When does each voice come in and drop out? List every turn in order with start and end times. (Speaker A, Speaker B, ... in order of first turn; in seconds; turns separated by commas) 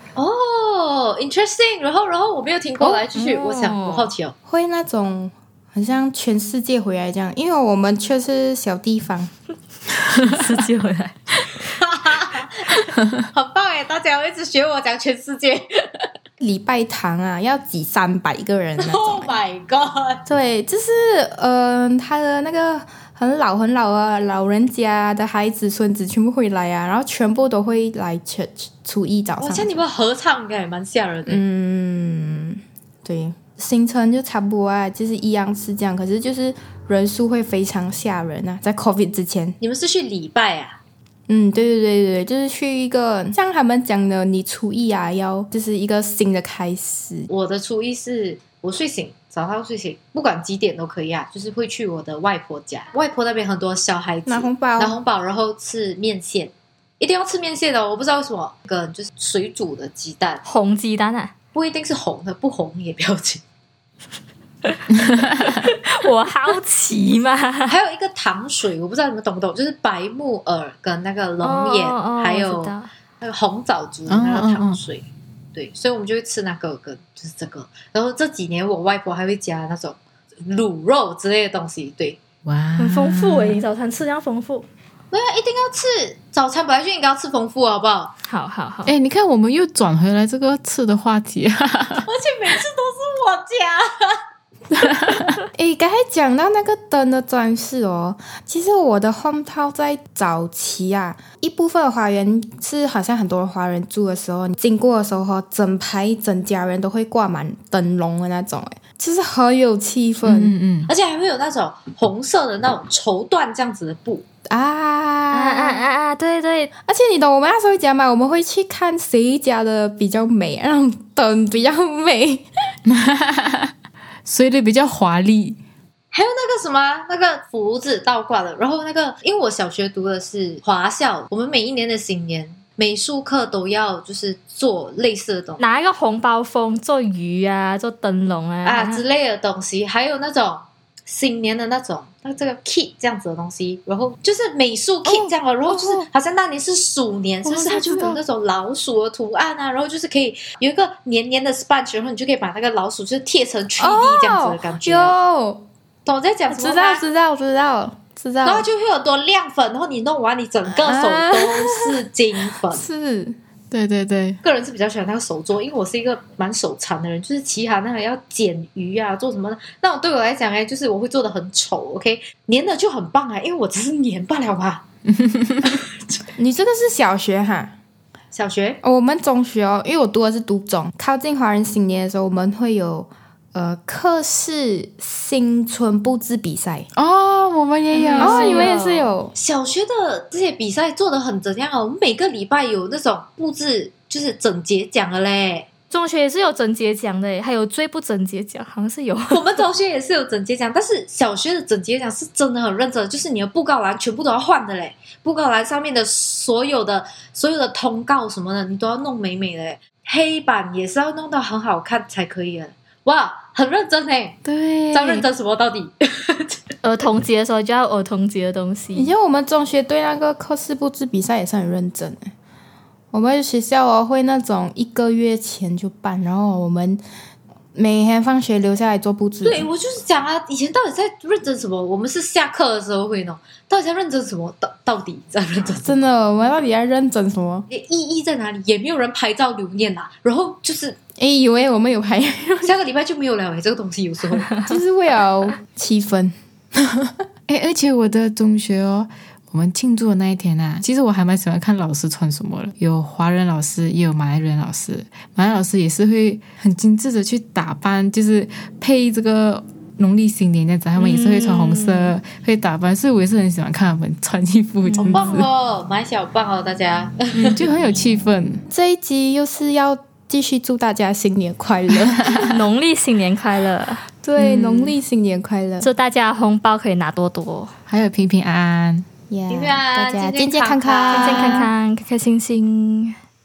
Speaker A: 0.2-4.3, Speaker B: 2.8-3.0, Speaker C: 3.1-4.1, Speaker B: 4.5-9.3, Speaker C: 10.1-11.5, Speaker A: 11.8-16.1, Speaker B: 16.4-19.4, Speaker A: 18.8-20.2, Speaker B: 20.3-29.8, Speaker A: 29.4-31.4, Speaker B: 31.3-39.6, Speaker A: 39.6-40.8, Speaker B: 41.3-47.3, Speaker A: 47.3-60.4, Speaker B: 54.3-55.0, Speaker C: 60.4-61.3, Speaker A: 61.5-63.4, Speaker C: 65.4-67.7, Speaker A: 67.7-82.2, Speaker C: 71.4-72.9, Speaker D: 74.1-74.8, Speaker D: 82.5-83.6, Speaker C: 82.8-84.7, Speaker A: 85.1-88.1, Speaker C: 88.2-88.9, Speaker D: 88.9-92.1, Speaker A: 92.1-94.2, Speaker D: 94.7-95.4, Speaker B: 95.5-110.5, Speaker D: 110.2-110.9, Speaker A: 110.9-114.2, Speaker B: 114.5-115.8, Speaker C: 115.3-116.7, Speaker B: 116.9-122.5, Speaker D: 122.9-123.7, Speaker D: 124.2-125.6, Speaker A: 126.1-135.6, Speaker C: 135.6-139.0, Speaker A: 138.7-155.2, Speaker D: 147.4-148.2, Speaker B: 153.8-155.6, Speaker A: 156.1-157.1, Speaker B: 156.5-158.7, Speaker A: 158.4-162.8, Speaker B: 160.7-162.0, Speaker B: 162.7-163.4, Speaker D: 163.7-164.4, Speaker A: 164.4-174.8, Speaker D: 175.1-175.8, Speaker B: 176.4-177.8, Speaker A: 178.3-178.8, Speaker B: 178.8-186.9, Speaker D: 187.0-188.7, Speaker C: 187.9-189.1, Speaker B: 188.2-189.3, Speaker A: 189.3-195.7, Speaker C: 195.9-199.6, Speaker A: 199.3-214.4, Speaker D: 214.5-215.2, Speaker A: 214.9-216.6, Speaker C: 216.8-219.1, Speaker B: 218.9-222.3, Speaker B: 223.1-227.0, Speaker B: 227.8-229.7, Speaker A: 229.4-236.1, Speaker B: 235.8-237.7, Speaker A: 237.7-241.0, Speaker B: 241.2-242.7, Speaker A: 242.6-244.5, Speaker B: 244.7-247.2, Speaker D: 247.5-265.5, Speaker C: 261.0-262.2, Speaker C: 264.9-265.2, Speaker A: 265.0-267.6, Speaker D: 267.4-268.6, Speaker B: 268.7-272.5, Speaker D: 272.2-272.6, Speaker C: 272.5-274.0, Speaker B: 274.2-275.9, Speaker D: 274.4-274.9, Speaker C: 275.8-277.7, Speaker D: 277.9-279.1, Speaker B: 279.3-281.7, Speaker A: 279.5-281.7, Speaker C: 281.1-283.2